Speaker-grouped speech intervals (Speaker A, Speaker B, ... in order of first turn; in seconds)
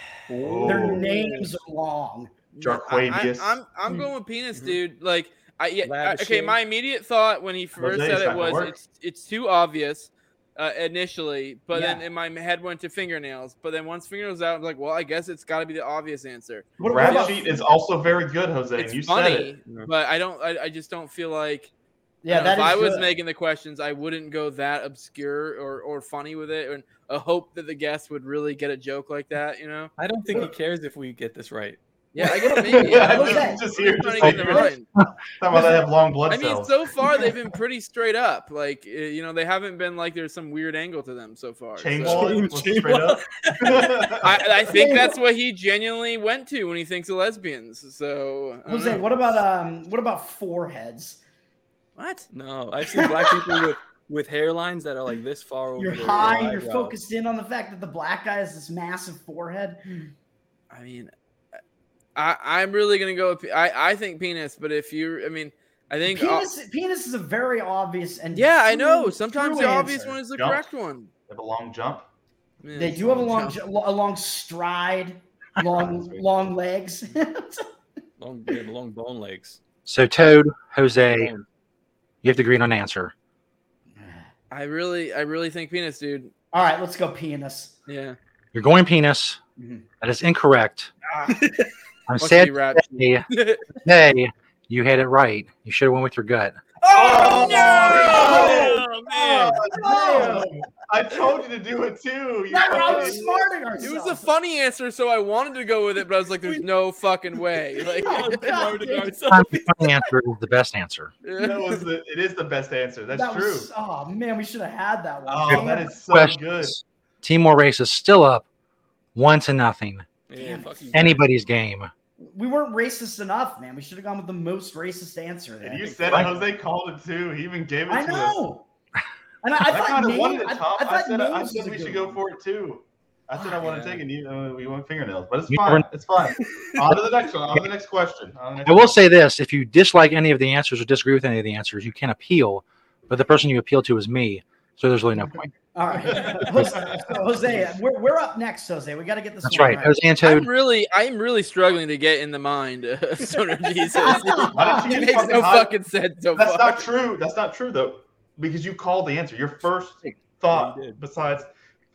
Speaker A: 0.3-1.5, 3.9-4.8, 5.8-6.6, 30.0-31.8, 42.0-44.1, 52.3-57.0, 78.2-79.6, 81.0-81.4, 97.4-99.6, 107.3-110.1, 120.3-121.2, 125.8-126.4, 133.6-134.0, 153.8-154.5, 160.5-161.0
Speaker B: 0.4-1.1, 2.6-3.6, 7.8-8.8, 16.8-19.5, 32.7-34.7, 35.4-36.9, 41.8-44.4, 70.3-70.6, 71.3-72.0, 75.7-76.4, 96.9-98.8, 99.4-103.4, 111.4-113.7, 115.3-116.8, 125.6-128.4, 129.7-139.0, 146.1-147.1, 154.5-155.7, 156.3-161.5
Speaker C: 0.7-2.3, 11.7-12.0, 16.8-17.6, 22.2-23.1, 32.2-33.6, 34.2-34.7, 44.7-45.2, 48.6-51.2, 52.9-53.7, 55.8-60.1, 66.0-70.2, 72.7-77.7, 84.0-84.3, 86.5-87.8, 89.6-89.8, 97.2-98.8, 99.7-100.5, 102.5-104.3, 108.0-109.1, 113.1-116.0, 120.3-121.0, 122.2-126.3, 127.9-128.7, 129.4-132.2, 145.7-150.0, 154.0-155.4
Speaker D: 2.5-17.4, 18.8-21.7, 22.3-29.9, 32.1-34.9, 36.3-42.3, 44.2-49.3, 52.0-52.2, 60.7-61.1, 62.1-66.5, 68.3-71.1, 72.6-73.6, 84.5-86.3, 87.9-88.2, 91.0-91.5, 92.2-93.7, 96.8-98.7, 103.8-108.6, 111.2-111.8, 150.2-156.8
Speaker E: 79.8-81.3, 82.2-83.1, 88.5-89.4, 90.0-90.9, 92.1-93.2, 93.8-96.6, 109.3-111.1, 115.5-118.4, 119.1-120.1, 120.9-121.9, 135.5-135.8, 138.7-145.5, 146.5-146.9, 149.4-150.5